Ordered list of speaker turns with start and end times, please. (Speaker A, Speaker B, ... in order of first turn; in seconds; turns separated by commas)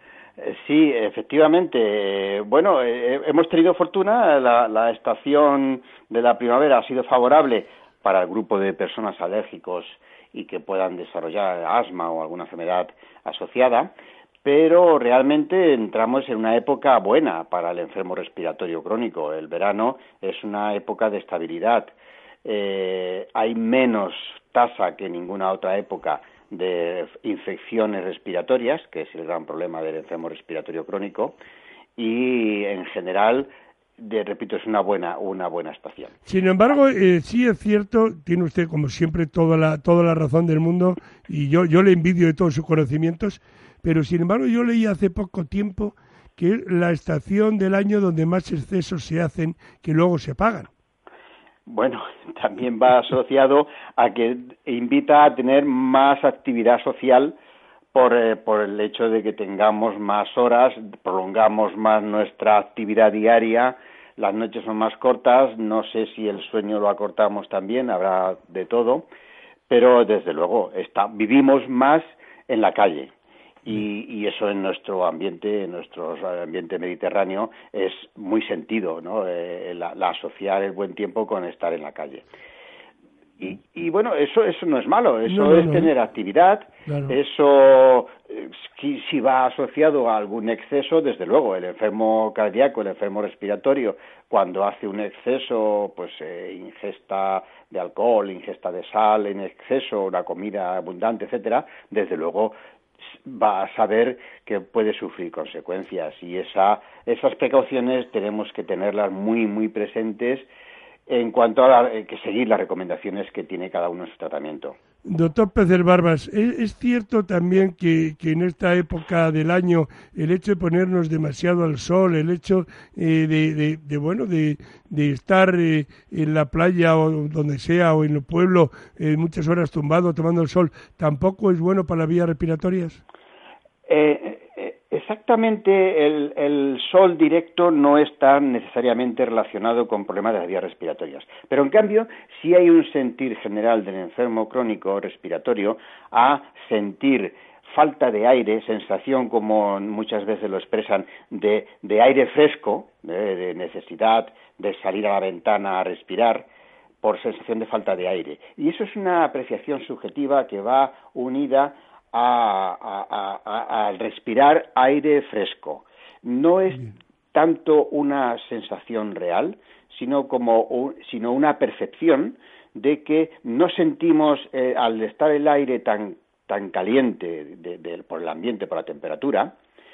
Speaker A: 0.4-21.9, Speaker A: 22.4-31.4, Speaker A: 32.0-36.1, Speaker B: 36.2-50.7, Speaker A: 51.7-57.4, Speaker A: 57.9-69.1, Speaker A: 69.7-73.1, Speaker A: 73.6-82.2, Speaker A: 83.4-102.6, Speaker B: 85.3-85.9, Speaker B: 86.9-87.1, Speaker A: 103.1-110.5, Speaker A: 111.1-114.8, Speaker B: 115.0-133.0, Speaker A: 133.9-156.5, Speaker A: 157.0-179.5